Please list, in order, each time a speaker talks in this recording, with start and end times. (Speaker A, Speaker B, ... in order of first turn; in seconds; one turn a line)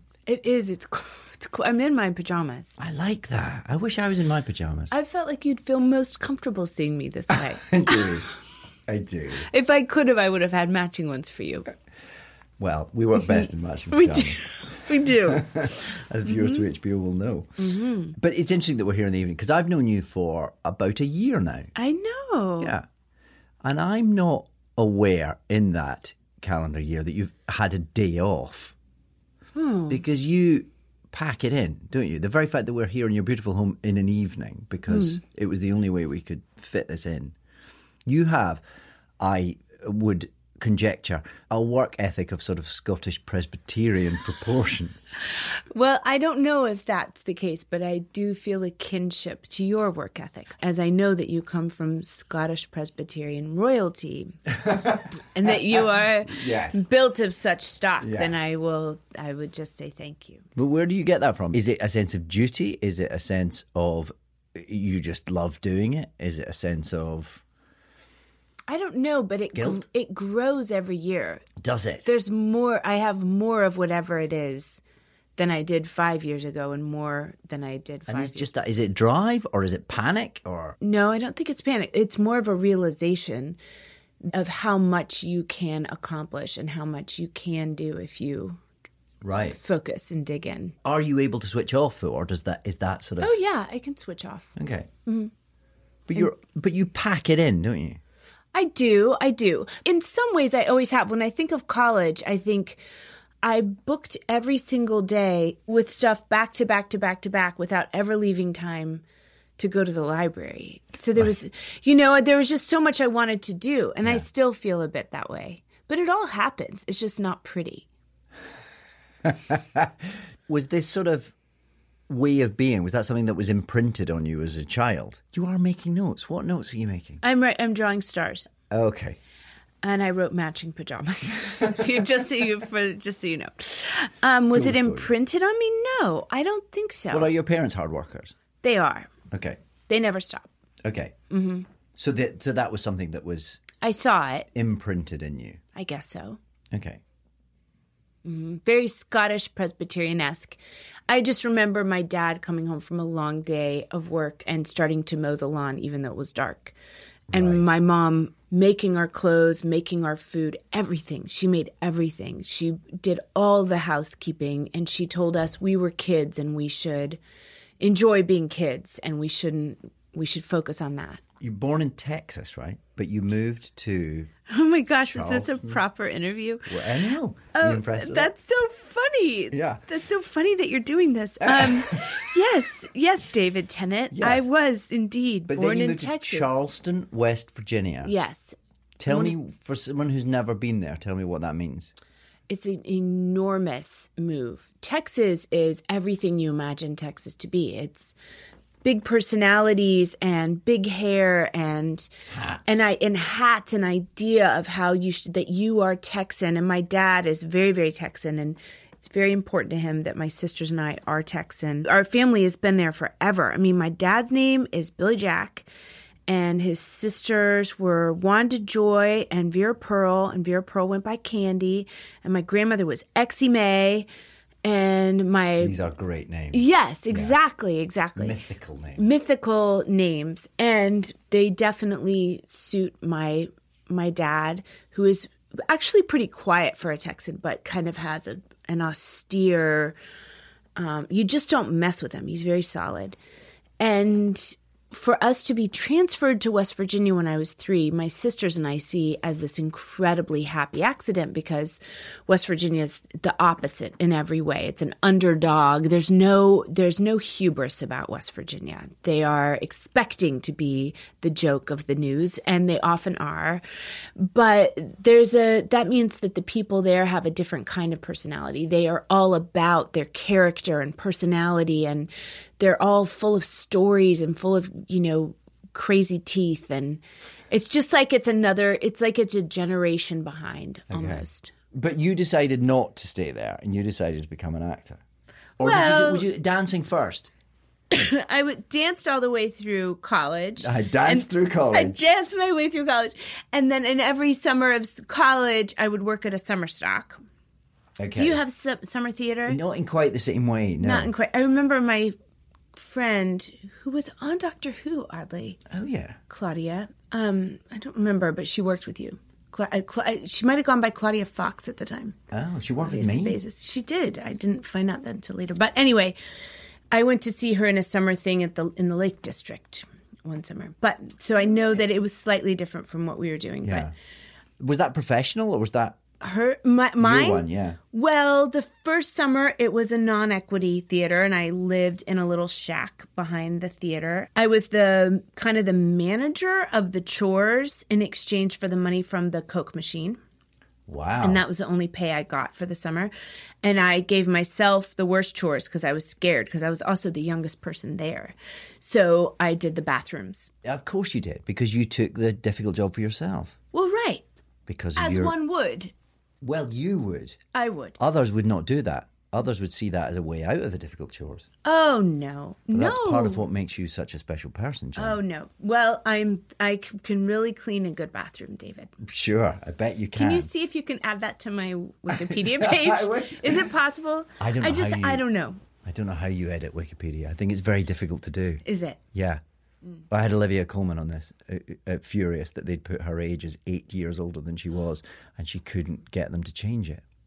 Speaker A: 0.3-2.8
Speaker B: 2.8-4.9
Speaker A: 4.9-8.4
Speaker B: 7.3-8.3
Speaker B: 8.9-9.5
Speaker A: 9.4-11.7
Speaker B: 12.6-17.6
Speaker A: 13.2-16.6
Speaker A: 17.6-18.1
Speaker B: 18.1-21.7
Speaker A: 21.8-22.8
Speaker B: 22.6-22.9
Speaker B: 23.6-28.8
Speaker A: 29.6-30.0
Speaker B: 29.9-37.3
Speaker A: 34.9-35.2
Speaker B: 38.1-38.6
Speaker B: 39.2-45.1
Speaker A: 45.7-54.4
Speaker B: 54.5-56.8
Speaker A: 55.2-60.5
Speaker B: 58.0-58.3
Speaker B: 60.5-67.4
Speaker A: 68.7-71.5
Speaker B: 69.5-69.8
Speaker B: 71.6-72.1
Speaker A: 72.0-74.8
Speaker A: 75.4-78.5
Speaker B: 78.1-80.8
Speaker A: 80.8-83.6
Speaker A: 84.2-88.6
Speaker B: 89.2-89.6
Speaker A: 89.6-90.8
Speaker B: 90.8-93.4
Speaker A: 93.2-94.5
Speaker B: 94.6-94.9
Speaker A: 95.1-95.3
Speaker B: 96.1-98.0
Speaker A: 98.5-102.8
Speaker A: 103.4-109.0
Speaker A: 109.6-117.9
Speaker B: 119.2-121.3
Speaker B: 122.1-127.2
Speaker A: 127.2-128.5
Speaker B: 128.7-129.2
Speaker A: 129.8-137.3
Speaker B: 134.5-135.1
Speaker B: 137.1-138.3
Speaker A: 138.6-139.1
Speaker B: 139.3-139.6
Speaker A: 139.9-140.5
Speaker B: 140.8-141.2
Speaker A: 141.3-141.7
Speaker B: 142.0-143.6
Speaker A: 143.8-144.5
Speaker B: 144.5-145.6
Speaker A: 145.8-146.4
Speaker B: 146.7-147.0
Speaker A: 148.2-150.6
Speaker A: 151.1-156.7
Speaker B: 157.3-157.7
Speaker A: 157.3-167.2
Speaker A: 167.8-171.2
Speaker B: 171.4-174.3
Speaker A: 174.5-176.9
Speaker B: 175.1-175.8
Speaker B: 176.7-178.3
Speaker A: 177.5-186.5
Speaker B: 179.5-179.8
Speaker B: 181.4-182.1
Speaker B: 184.1-184.5
Speaker B: 185.5-188.1
Speaker A: 188.0-189.3
Speaker B: 189.0-191.9
Speaker A: 192.5-198.2
Speaker A: 198.8-202.1
Speaker B: 202.3-202.8
Speaker A: 202.7-215.7
Speaker A: 216.3-224.1
Speaker A: 224.6-225.8
Speaker B: 225.6-227.3
Speaker A: 226.5-228.4
Speaker B: 228.2-229.0
Speaker A: 229.0-239.9
Speaker A: 240.8-243.2
Speaker A: 243.8-263.6
Speaker A: 264.2-281.5
Speaker B: 280.9-285.0
Speaker B: 285.6-287.3
Speaker A: 285.6-286.3
Speaker A: 287.9-297.2
Speaker B: 290.6-292.0
Speaker B: 298.0-298.4
Speaker A: 298.1-299.6
Speaker B: 299.5-301.1
Speaker A: 300.8-302.1
Speaker A: 302.7-305.6
Speaker B: 305.7-306.2
Speaker A: 306.3-312.2
Speaker B: 312.3-313.4
Speaker A: 312.8-316.1
Speaker A: 316.9-323.9
Speaker B: 323.6-323.9
Speaker B: 324.6-326.0
Speaker A: 326.2-340.2
Speaker B: 327.0-327.8
Speaker B: 340.9-341.4
Speaker A: 341.2-343.1
Speaker A: 343.6-350.5
Speaker B: 350.6-353.6
Speaker A: 353.7-354.2
Speaker B: 354.6-355.4
Speaker A: 355.0-355.9
Speaker B: 356.4-357.4
Speaker A: 357.5-358.0
Speaker B: 358.0-361.5
Speaker A: 361.6-363.4
Speaker B: 362.7-365.2
Speaker A: 364.9-368.9
Speaker B: 369.0-370.5
Speaker A: 370.1-375.6
Speaker B: 372.1-373.7
Speaker B: 374.4-375.2
Speaker B: 375.8-379.4
Speaker A: 378.6-379.0
Speaker B: 380.1-387.0